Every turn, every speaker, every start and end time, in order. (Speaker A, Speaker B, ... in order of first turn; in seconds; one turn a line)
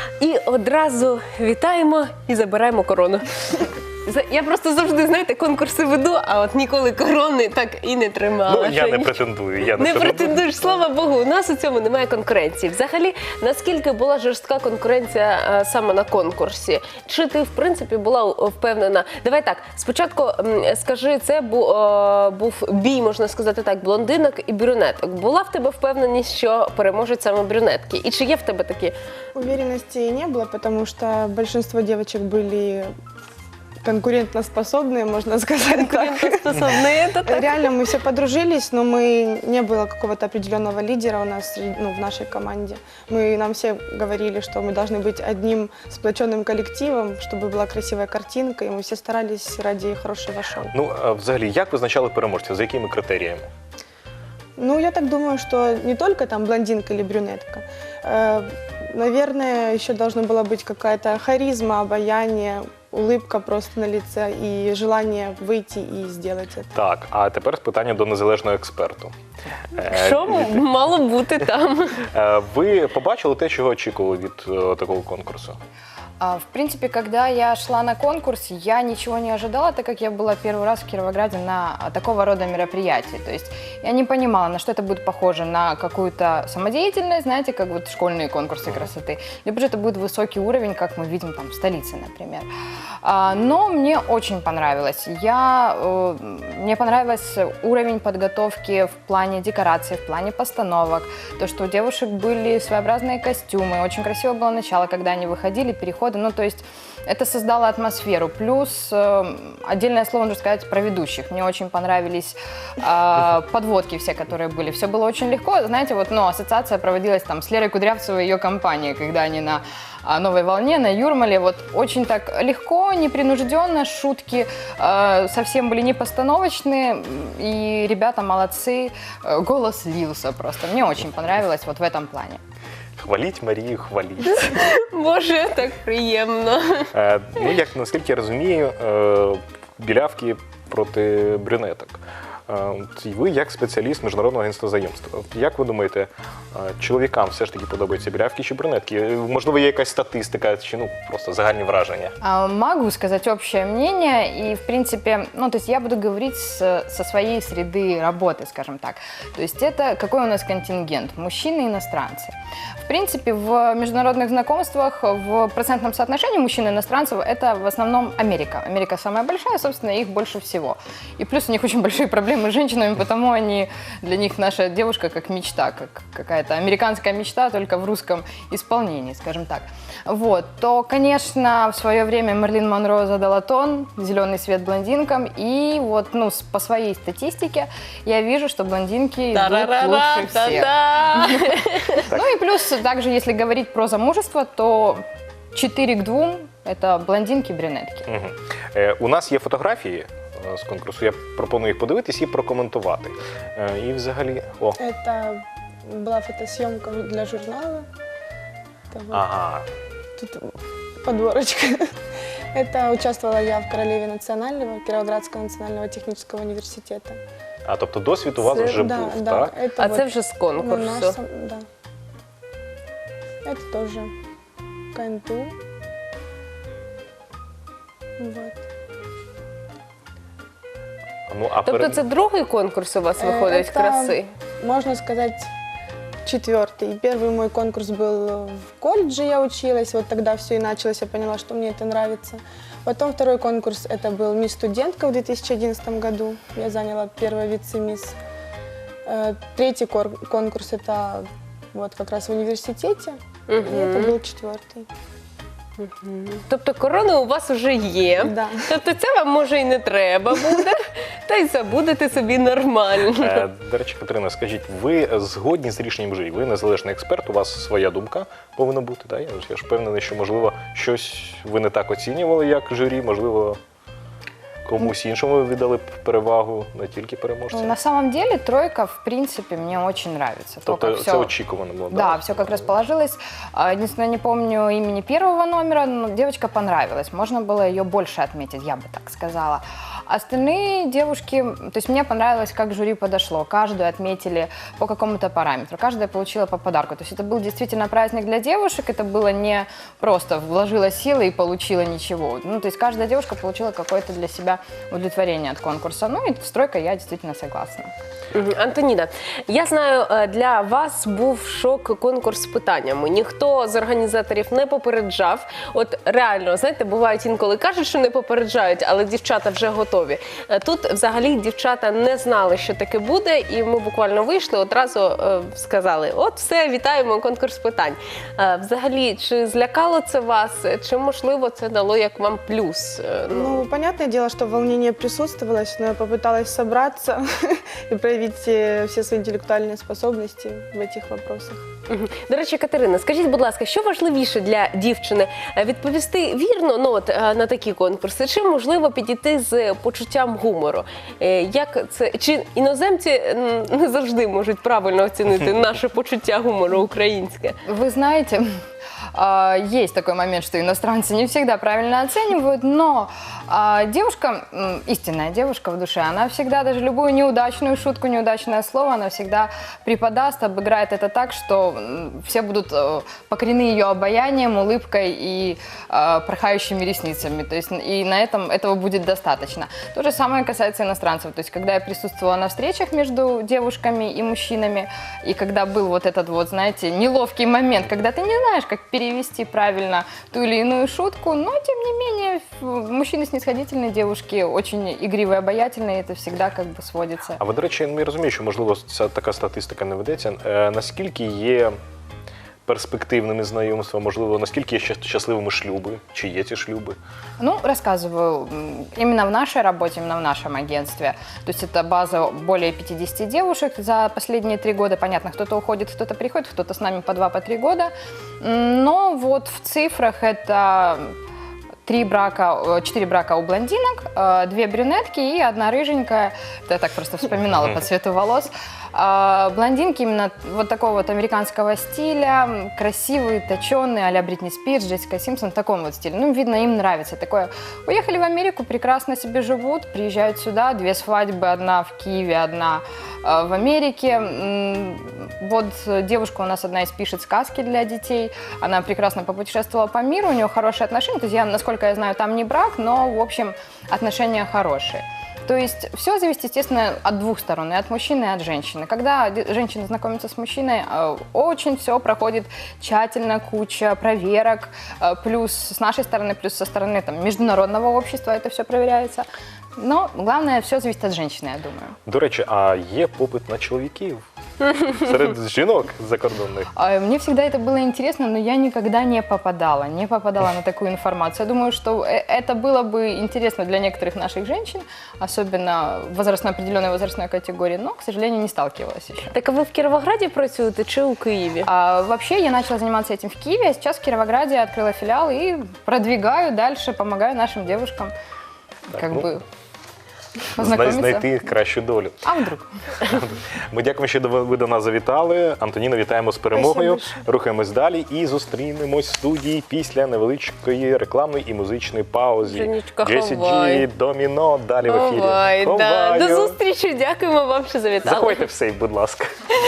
Speaker A: 0.2-28.9
Speaker B: 8.4-10.4
Speaker C: 29.4-32.9
Speaker C: 33.8-50.7
Speaker A: 35.7-37.8
Speaker B: 50.7-53.5
Speaker C: 54.6-66.7
Speaker B: 66.7-69.2
Speaker B: 69.7-70.7
Speaker A: 69.8-72.0
Speaker B: 72.1-75.6
Speaker D: 76.2-92.5
Speaker D: 93.0-132.4
Speaker B: 133.0-134.7
Speaker A: 134.3-136.9
Speaker B: 136.9-152.2
Speaker D: 152.2-198.1
Speaker A: 189.3-192.1
Speaker B: 198.1-204.8
Speaker C: 204.8-207.9
Speaker C: 208.9-209.2
Speaker B: 209.1-209.7
Speaker C: 210.2-211.9
Speaker C: 212.5-217.2
Speaker B: 217.7-219.6
Speaker A: 218.4-218.9
Speaker C: 218.6-221.7
Speaker A: 219.8-221.2
Speaker C: 223.4-224.1
Speaker C: 224.9-225.6
Speaker C: 228.2-228.6
Speaker B: 231.3-232.0
Speaker A: 231.7-234.3
Speaker C: 233.2-235.5
Speaker C: 236.2-248.2
Speaker C: 249.1-254.9
Speaker A: 253.5-254.2
Speaker A: 255.8-263.4
Speaker C: 258.2-258.6
Speaker B: 263.2-273.6
Speaker B: 274.7-277.8
Speaker D: 277.5-281.3
Speaker B: 280.7-282.8
Speaker D: 281.9-307.9
Speaker A: 308.3-333.6
Speaker C: 333.3-341.6
Speaker A: 341.9-357.6
Speaker D: 357.6-358.5
Speaker D: 359.1-397.4
Speaker B: 397.4-401.8
Speaker B: 402.7-407.0
Speaker D: 407.4-421.2
Speaker D: 421.9-469.3
Speaker B: 427.5-427.8
Speaker D: 469.8-472.0
Speaker B: 472.1-476.7
Speaker D: 476.8-489.4
Speaker A: 489.3-491.7
Speaker D: 491.6-498.1
Speaker D: 498.9-499.4
Speaker B: 498.9-499.3
Speaker D: 500.6-501.3
Speaker B: 500.6-502.2
Speaker D: 502.2-502.7
Speaker B: 503.0-516.6
Speaker C: 506.5-507.2
Speaker A: 512.5-513.9
Speaker A: 514.9-518.5
Speaker B: 518.0-519.4